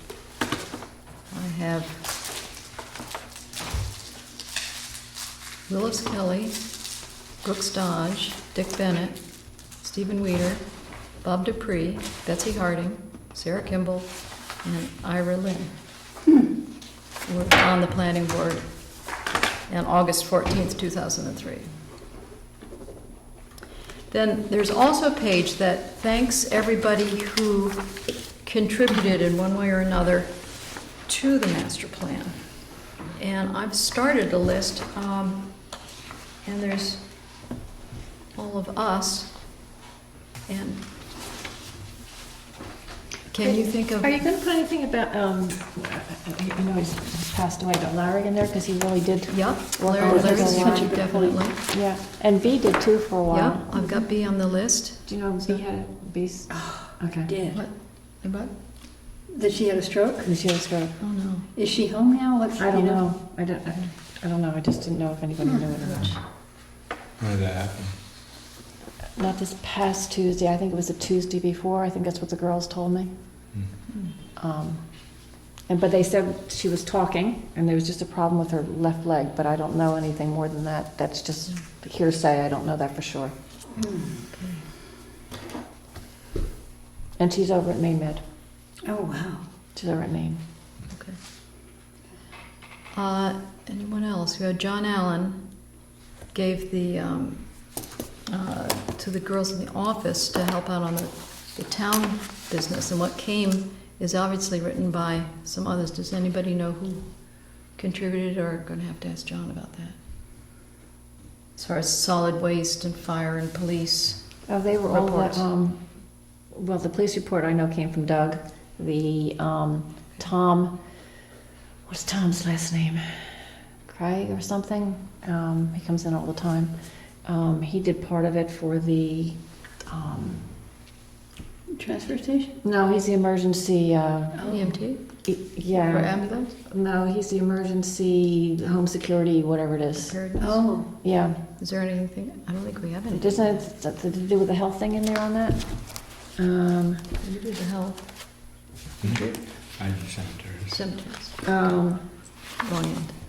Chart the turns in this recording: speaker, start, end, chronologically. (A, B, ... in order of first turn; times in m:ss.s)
0:01.3-0:02.0 A
0:05.7-0:06.6 A
0:07.4-0:09.2 A
0:09.8-0:10.6 A
0:11.2-0:15.7 A
0:17.2-0:18.7 A
0:19.7-0:21.7 A
0:24.1-0:27.8 A
0:28.4-0:30.3 A
0:31.1-0:32.4 A
0:33.2-0:35.5 A
0:36.4-0:37.0 A
0:38.4-0:39.3 A
0:40.5-0:40.8 A
0:43.3-0:44.2 A
0:43.4-0:51.0 B
0:49.3-0:51.6 A
0:50.0-0:51.4 C
0:51.7-0:53.7 B
0:53.3-0:55.6 A
0:55.1-0:57.3 B
0:56.5-0:57.6 C
0:57.5-0:58.5 A
0:59.3-1:00.3 C
1:00.2-1:01.0 B
1:01.0-1:01.4 A
1:01.6-1:03.0 C
1:02.6-1:06.2 B
1:05.9-1:06.2 A
1:07.2-1:07.9 D
1:09.2-1:13.1 B
1:14.4-1:14.8 B
1:15.7-1:23.3 B
1:23.8-1:24.1 C
1:24.3-1:24.6 A
1:27.2-1:28.2 B
1:28.8-1:29.4 C
1:29.8-1:30.4 B
1:30.9-1:31.2 A
1:32.9-1:35.4 A
1:36.3-1:37.6 A
1:38.3-1:47.1 A
1:47.8-1:50.0 A
1:51.6-1:54.2 A
1:54.5-1:55.8 B
1:54.9-1:55.4 A
1:56.5-2:00.7 B
2:01.9-2:03.2 B
2:03.9-2:06.7 B
2:07.2-2:10.4 B
2:11.7-2:12.5 C
2:12.6-2:14.6 B
2:14.4-2:14.7 C
2:14.5-2:16.5 A
2:15.2-2:20.2 B
2:20.0-2:20.7 A
2:20.4-2:20.9 C
2:21.0-2:21.4 B
2:21.6-2:23.6 A
2:23.1-2:27.0 B
2:27.2-2:28.5 A
2:29.0-2:30.8 D
2:29.0-2:29.4 A
2:30.7-2:31.4 A
2:31.4-2:32.0 B
2:32.6-2:33.1 A